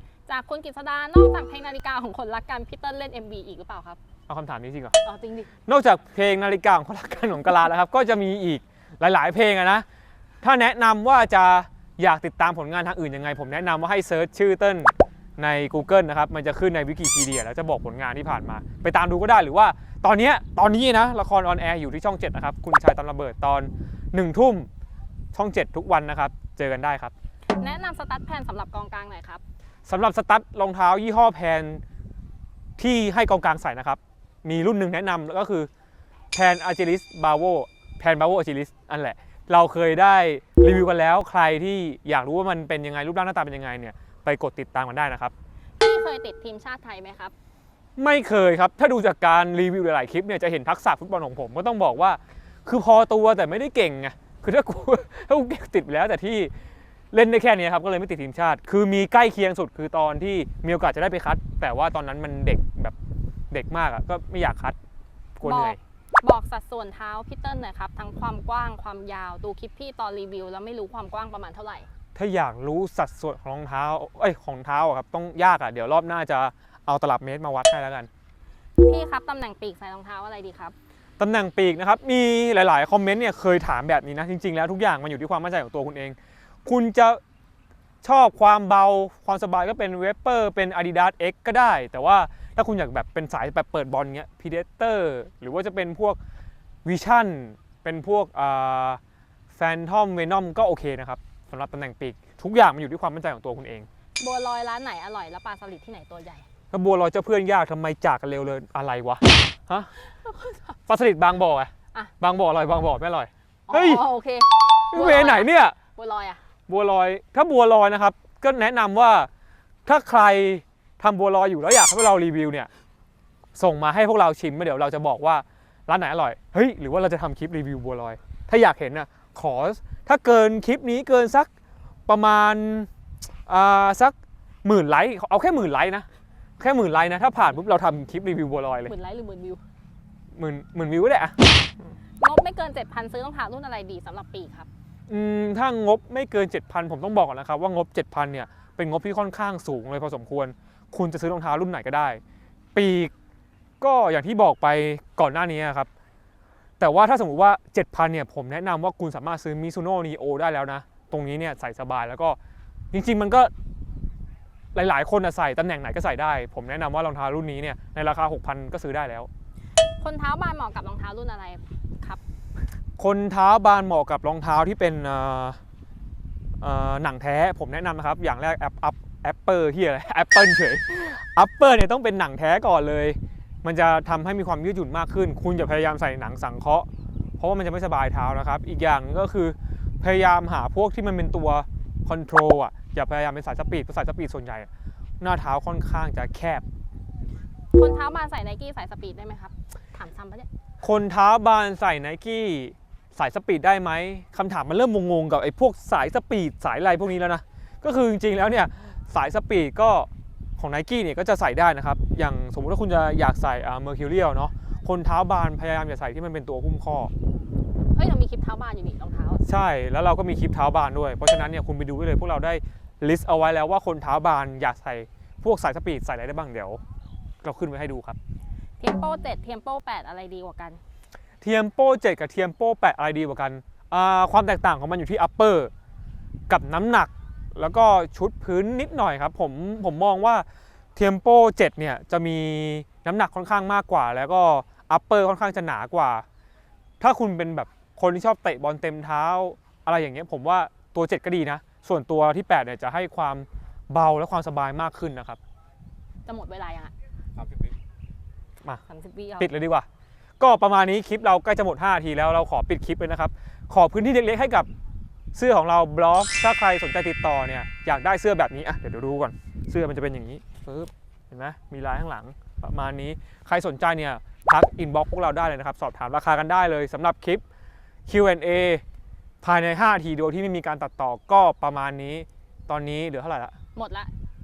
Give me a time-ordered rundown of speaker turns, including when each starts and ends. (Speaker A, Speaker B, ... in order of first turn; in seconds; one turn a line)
Speaker A: 0.3-4.0
Speaker B: 4.3-5.0
Speaker A: 5.0-5.5
Speaker B: 5.7-9.8
Speaker B: 10.4-24.7
Speaker B: 25.3-27.1
Speaker A: 27.6-29.4
Speaker B: 29.9-31.8
Speaker B: 32.8-35.7
Speaker B: 36.3-45.3
Speaker A: 45.8-47.3
Speaker B: 48.0-56.5
Speaker B: 57.1-63.0
Speaker B: 63.5-64.8
Speaker B: 65.3-65.8
Speaker A: 65.4-71.9
Speaker B: 72.1-78.1
Speaker A: 78.8-80.7
Speaker B: 81.2-87.2
Speaker B: 88.0-96.2
Speaker B: 96.8-99.0
Speaker B: 99.5-103.9
Speaker A: 104.2-106.5
Speaker B: 106.7-109.9
Speaker A: 110.2-110.6
Speaker B: 110.9-114.0
Speaker A: 113.7-116.4
Speaker B: 114.9-115.8
Speaker B: 116.7-119.3
Speaker B: 119.8-122.7
Speaker B: 123.5-131.5
Speaker B: 132.1-132.9
Speaker B: 133.5-136.1
Speaker B: 136.6-138.9
Speaker A: 138.8-139.6
Speaker B: 140.3-141.3
Speaker A: 142.2-144.7
Speaker B: 145.1-152.2
Speaker B: 152.7-153.1
Speaker B: 153.8-155.9
Speaker B: 156.8-162.4
Speaker B: 162.9-163.5
Speaker B: 164.7-169.3
Speaker A: 170.0-172.2
Speaker B: 173.0-175.6
Speaker B: 176.6-186.9
Speaker B: 187.4-194.7
Speaker B: 195.2-196.6
Speaker A: 197.7-200.5
Speaker B: 200.8-217.1
Speaker A: 217.9-219.4
Speaker B: 219.4-226.8
Speaker B: 227.4-228.2
Speaker A: 228.8-230.8
Speaker B: 231.4-235.7
Speaker B: 236.5-246.2
Speaker B: 247.0-255.4
Speaker A: 256.2-256.9
Speaker A: 258.9-259.5
Speaker B: 259.4-259.9
Speaker B: 260.4-264.7
Speaker B: 265.3-277.4
Speaker B: 278.1-278.8
Speaker B: 279.4-283.5
Speaker A: 283.8-284.1